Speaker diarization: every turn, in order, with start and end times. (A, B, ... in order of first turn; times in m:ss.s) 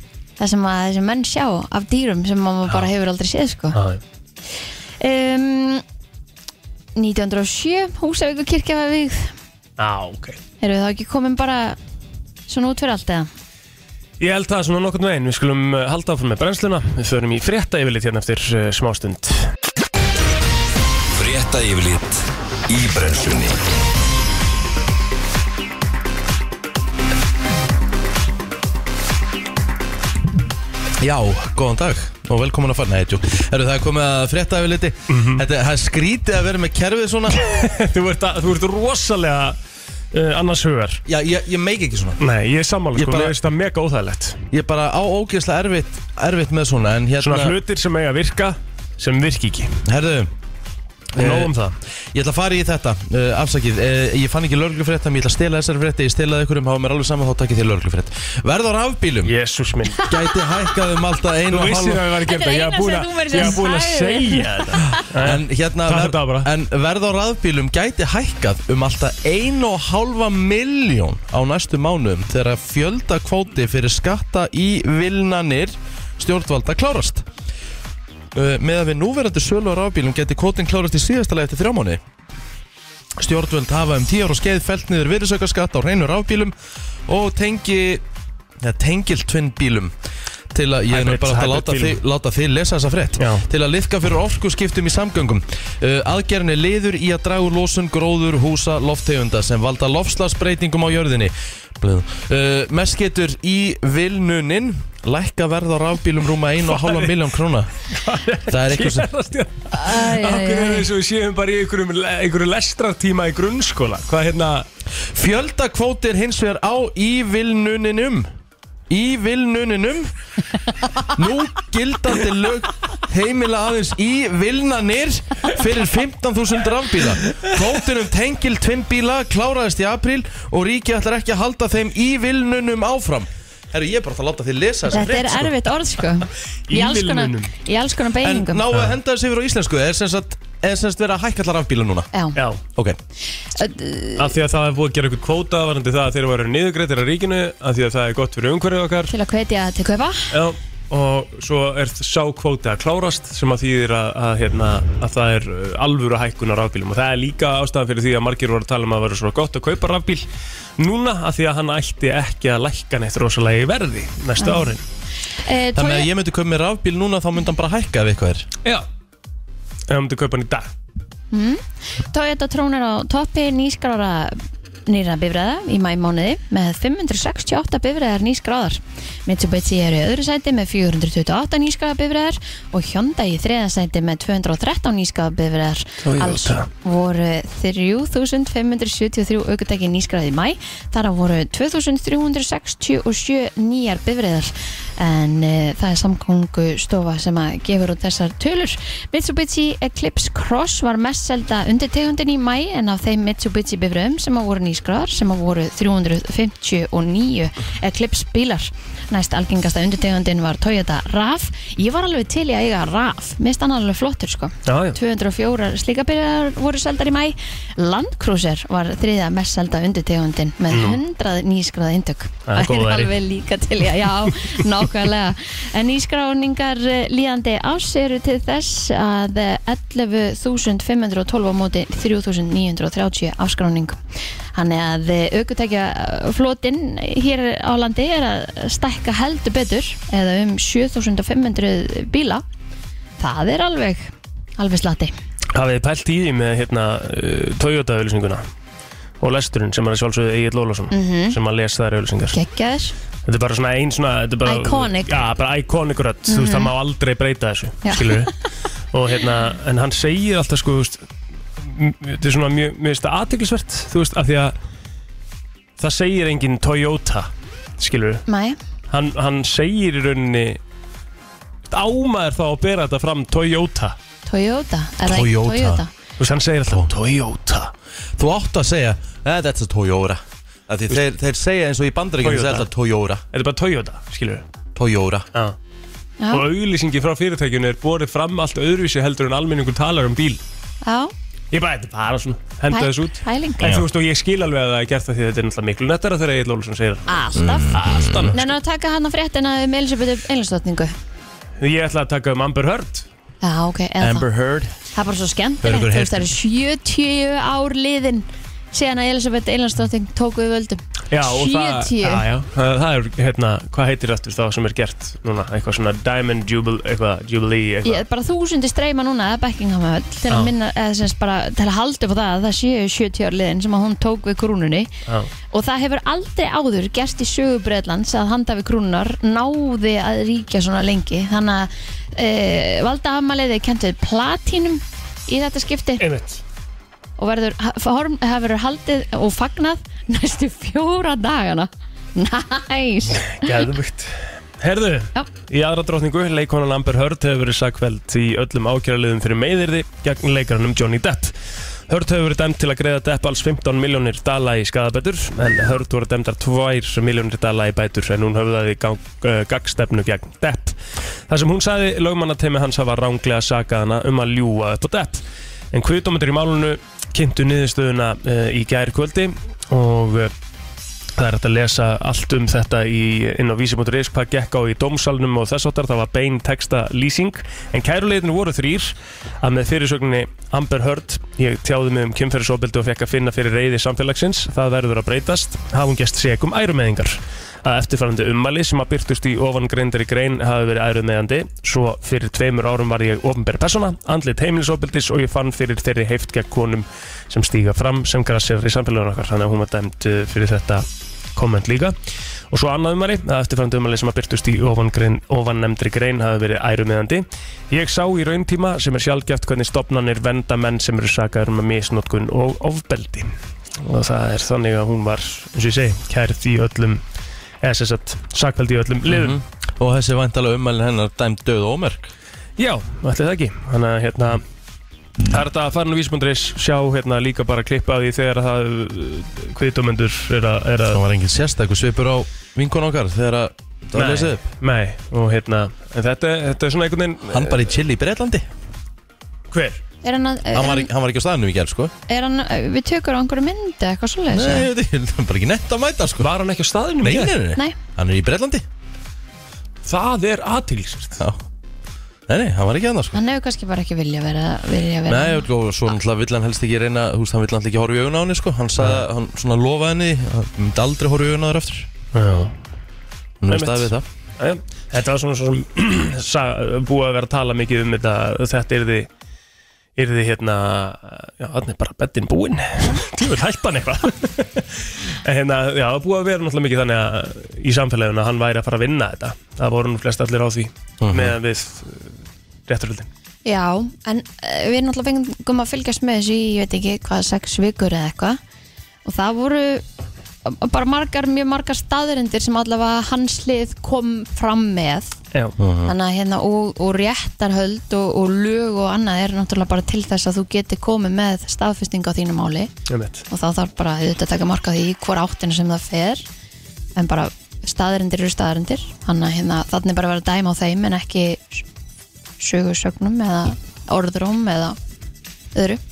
0:00.4-0:03.8 A
0:03.7-0:04.0 B
0:05.0-0:05.8 A
0:07.0-0:09.3 A
0:09.8-0:10.4 B
0:10.6-0:11.8 A
0:12.5-0:13.3 A
0:14.2-0:19.5 B
0:21.1-0:23.6 C
0:31.0-0:37.4 D
0:35.1-0:35.4 B
0:37.4-0:39.6 B
0:40.1-0:41.0 B
0:41.1-0:42.2 D
0:42.2-0:44.4 B
0:42.9-0:43.3 D
0:44.5-0:47.6 D
0:47.2-0:49.7 B
0:49.8-0:50.3 D
0:51.1-0:51.5 D
0:51.1-0:51.8 B
0:52.1-0:59.3 D
0:59.2-1:00.0 B
1:00.0-1:00.3 A
1:00.0-1:02.1 D
1:01.5-1:06.5 B
1:02.2-1:05.0 A
1:05.2-1:17.2 D
1:18.3-1:22.0 D
1:23.2-1:26.5 D
1:27.1-1:28.0 D
1:28.6-1:29.9 D
1:30.5-1:47.7 D
1:30.9-1:32.0 B
1:33.2-1:33.4 B
1:46.6-1:47.2 B
1:47.8-1:54.6 B
1:48.5-1:49.1 D
1:49.7-1:50.9 A
1:55.1-1:58.3 D
1:58.9-2:00.1 D
2:01.1-2:15.5 D
2:14.9-2:18.6 A
2:16.7-2:17.5 B
2:18.2-2:22.1 D
2:22.4-2:22.6 B
2:23.5-2:24.3 A
2:24.2-2:29.1 B
2:29.1-2:30.3 A
2:30.3-2:40.2 B
2:40.8-2:44.8 B
2:44.4-2:44.7 A
2:45.4-2:46.1 A
2:45.7-2:48.5 D
2:49.9-2:50.7 B
2:51.3-3:54.0 A
3:06.0-3:06.7 B
3:34.6-3:35.0 B
3:40.7-3:41.0 B
3:42.5-3:43.1 B
3:54.5-4:02.4 A
4:03.2-4:05.1 A
4:05.5-4:08.4 B
4:09.2-4:12.4 B
4:10.9-4:11.4 A
4:12.3-4:12.9 A
4:13.2-4:18.3 B
4:14.4-4:15.1 A
4:16.3-4:16.7 A
4:17.8-4:18.3 A
4:18.9-4:21.0 B
4:21.6-4:24.5 B
4:25.8-4:28.2 B
4:28.3-4:28.6 A
4:28.9-4:30.6 B
4:31.7-4:34.0 B
4:34.3-4:35.9 A
4:35.0-4:35.8 D
4:36.2-4:37.7 B
4:38.2-4:43.2 D
4:42.2-4:42.7 B
4:43.3-4:44.4 B
4:44.7-4:45.3 D
4:46.3-4:50.4 B
4:50.8-4:51.1 A
4:51.5-4:57.2 B
4:52.7-4:53.8 A
4:57.1-4:57.8 A
4:57.4-4:58.4 D
4:57.7-4:58.4 B
4:58.3-5:00.9 A
5:01.6-5:03.1 B
5:03.4-5:04.3 A
5:04.0-5:04.7 D
5:04.9-5:12.2 A
5:05.6-5:06.3 D
5:11.1-5:18.0 B
5:17.8-5:24.9 A
5:25.5-5:36.0 A
5:36.0-5:36.4 B
5:37.2-5:43.5 A
5:43.3-5:51.3 B
5:51.9-6:10.3 B
6:11.2-6:42.0 B
6:42.5-6:57.0 B
6:57.6-6:59.4 B
6:59.1-7:02.1 D
7:02.6-7:04.4 B
7:05.3-7:11.0 B
7:10.9-7:14.4 D
7:13.9-7:17.7 B
7:17.2-7:18.4 D
7:19.5-7:19.8 B
7:20.0-7:20.9 A
7:20.5-7:21.9 D
7:22.1-7:24.7 A
7:24.3-7:26.3 D
7:26.2-7:27.3 B
7:27.0-7:28.6 D
7:29.8-7:31.2 B
7:32.3-7:33.2 D
7:33.1-7:35.4 A
7:35.1-7:41.9 D
7:38.8-7:39.0 B
7:42.1-7:42.5 B
7:43.4-7:44.0 D
7:43.5-7:49.1 B
7:50.0-8:02.1 B
8:01.0-8:01.3 D
8:02.7-8:03.1 B
8:03.4-8:08.4 A
8:09.0-8:09.8 A
8:10.4-8:15.2 A
8:15.6-8:15.9 D
8:15.8-8:22.7 A
8:22.9-8:23.2 B
8:23.3-8:26.2 A
8:27.0-8:31.6 A
8:32.4-8:34.8 A
8:35.5-8:35.8 A